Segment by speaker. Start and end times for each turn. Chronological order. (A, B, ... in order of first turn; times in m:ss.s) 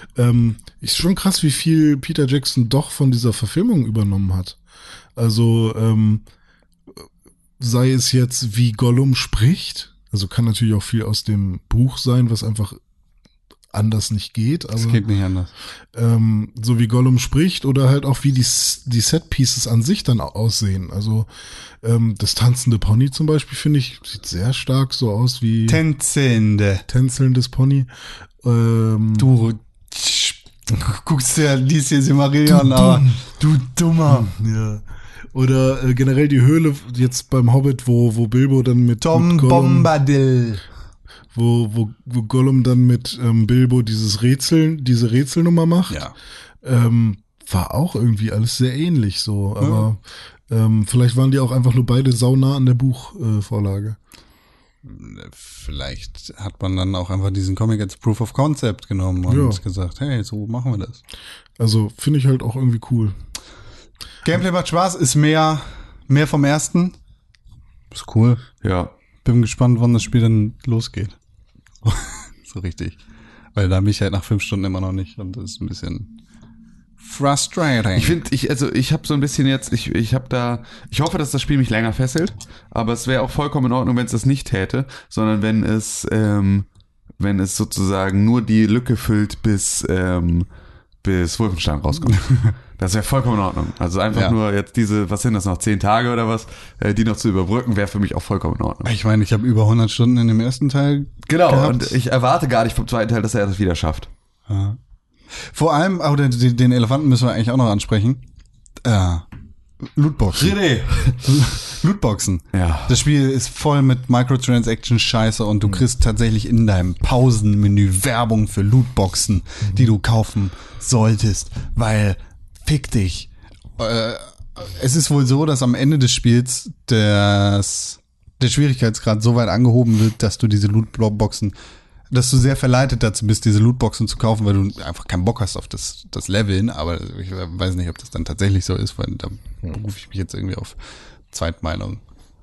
0:00.2-0:04.6 A
0:05.2-0:06.2 A
0:07.6-0:12.8 A
0:13.7-0:15.0 A
0:14.8-0:15.5 B
0:15.9-0:21.3 A
0:21.8-0:25.8 A
0:25.7-0:26.9 B
0:26.9-0:27.9 A
0:28.4-0:29.3 A
0:29.2-0:34.3 B
0:32.5-0:33.2 A
0:34.1-0:39.9 A
0:39.0-0:40.6 B
0:41.3-0:46.0 A
0:45.9-0:46.2 B
0:46.6-0:54.0 A
0:49.6-0:49.9 B
0:54.8-1:01.0 B
0:59.3-0:59.6 A
1:01.6-1:03.2 A
1:04.2-1:07.0 B
1:07.9-1:08.5 B
1:08.6-1:08.9 C
1:09.2-1:11.2 B
1:11.8-1:13.0 B
1:13.6-1:16.1 B
1:17.0-1:18.2 B
1:18.0-1:26.7 C
1:27.2-1:30.5 C
1:31.0-1:38.9 C
1:32.1-1:32.5 B
1:38.8-1:42.0 B
1:41.3-1:44.1 C
1:44.5-1:44.8 B
1:45.3-1:48.2 B
1:48.8-1:49.2 B
1:50.0-1:50.6 B
1:50.3-1:51.2 C
1:51.2-2:11.6 B
1:52.5-1:53.0 C
2:12.1-2:20.8 B
2:21.3-2:22.0 B